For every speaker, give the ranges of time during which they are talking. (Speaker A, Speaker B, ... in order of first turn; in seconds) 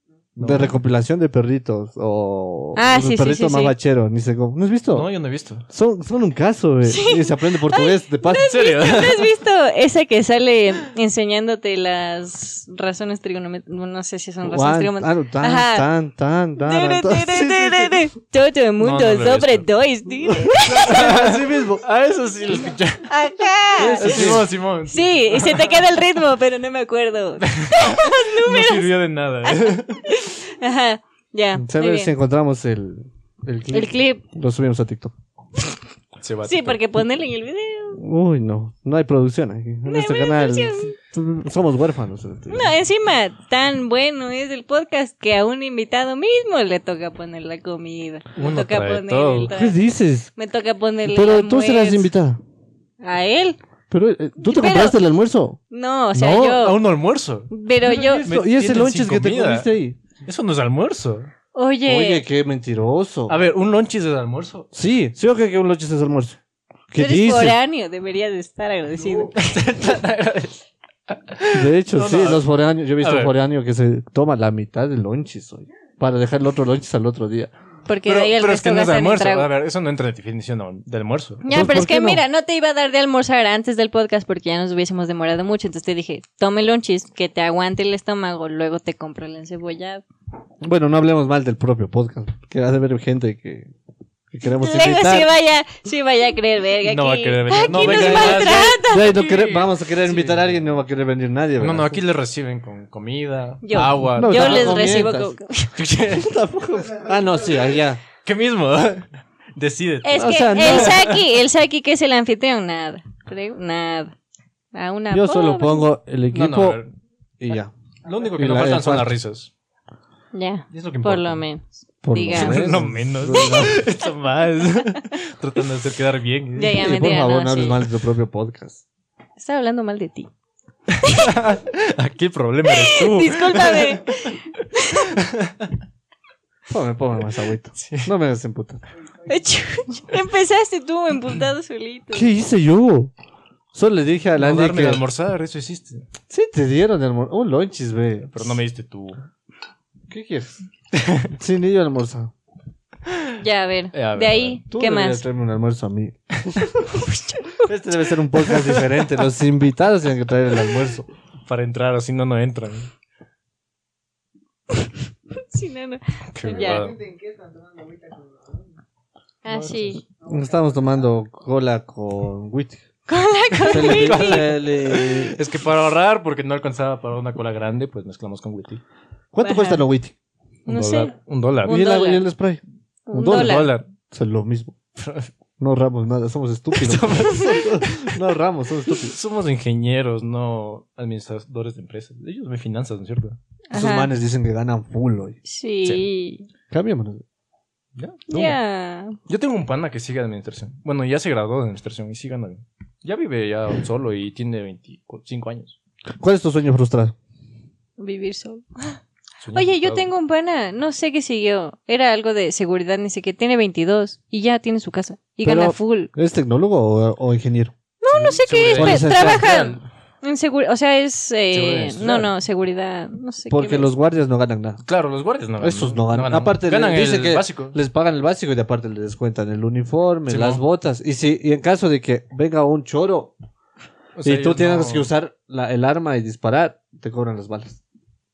Speaker A: 0.4-0.8, 4.9-5.6, 8.4-9.3, 18.8-19.7, 20.5-23.1, 24.0-25.9, 27.4-30.0, 36.2-36.8, 48.4-49.5, 56.1-59.7, 60.2-61.3, 63.3-64.7, 69.0-72.4, 73.0-73.3, 78.0-81.5, 96.8-100.6, 101.6-104.9, 105.7-106.3, 108.2-111.2, 116.3-116.9, 118.0-119.5, 120.7-121.4, 122.3-127.0, 130.9-134.4, 135.1-135.7, 137.8-138.1, 144.4-146.1, 148.3-149.2, 150.9-151.3, 153.9-154.6, 158.4-159.1, 161.4-162.9, 166.3-167.1, 173.6-178.8, 180.7-181.8, 183.2-183.9, 185.0-185.3, 186.7-188.1, 188.9-193.4, 197.9-198.6, 199.3-205.8, 209.4-210.1, 218.1-219.8, 221.5-222.3, 224.9-227.7, 230.3-230.6, 234.2-235.1
Speaker B: 0.4-5.1, 5.7-8.6, 14.4-18.0, 20.6-21.8, 23.8-24.5, 31.6-35.1, 38.0-42.7, 49.5-50.3, 51.0-52.4, 53.9-55.6, 58.0-60.0, 61.9-63.4, 64.7-66.4, 66.9-67.6, 71.5-77.5, 81.5-82.2, 90.6-93.7, 94.3-95.3, 97.7-102.0, 104.0-105.3, 106.1-108.0, 110.1-111.0, 115.1-116.8, 117.4-117.7, 118.4-119.1, 122.0-123.8, 126.7-128.8, 136.7-138.8, 142.1-143.1, 143.7-145.0, 146.3-148.6, 150.1-150.6, 151.3-152.3, 154.7-156.7, 157.6-161.1, 170.0-172.8, 173.7-175.4, 179.3-180.1, 181.7-182.6, 183.1-184.7, 185.6-189.2, 193.7-195.4, 196.7-197.2, 206.2-207.1, 215.4-217.7, 218.7-219.5, 223.5-224.8, 225.6-233.3, 234.2-237.8
Speaker C: 2.7-3.7, 6.8-15.9, 16.6-21.1, 23.0-28.9, 29.4-32.1, 33.7-34.2, 36.4-38.0, 39.9-40.9, 42.5-49.8, 50.4-52.1, 53.0-53.6, 54.4-55.0, 55.7-56.8, 57.5-58.3, 61.5-62.2, 67.0-69.6, 77.9-79.5, 81.4-90.0, 94.6-99.2, 103.6-105.8, 110.0-114.1, 114.7-115.9, 120.3-122.7, 123.3-123.8, 126.5-127.8, 129.4-130.3, 131.0-131.4, 132.7-135.1, 139.2-142.3, 153.4-155.2, 156.8-157.7, 165.5-166.9, 169.4-170.0, 173.1-174.5, 179.4-179.8, 180.7-181.1, 181.7-182.2, 183.1-183.7, 193.7-194.1, 195.4-196.5, 198.3-199.2, 208.0-209.0, 209.5-216.1, 218.0-223.9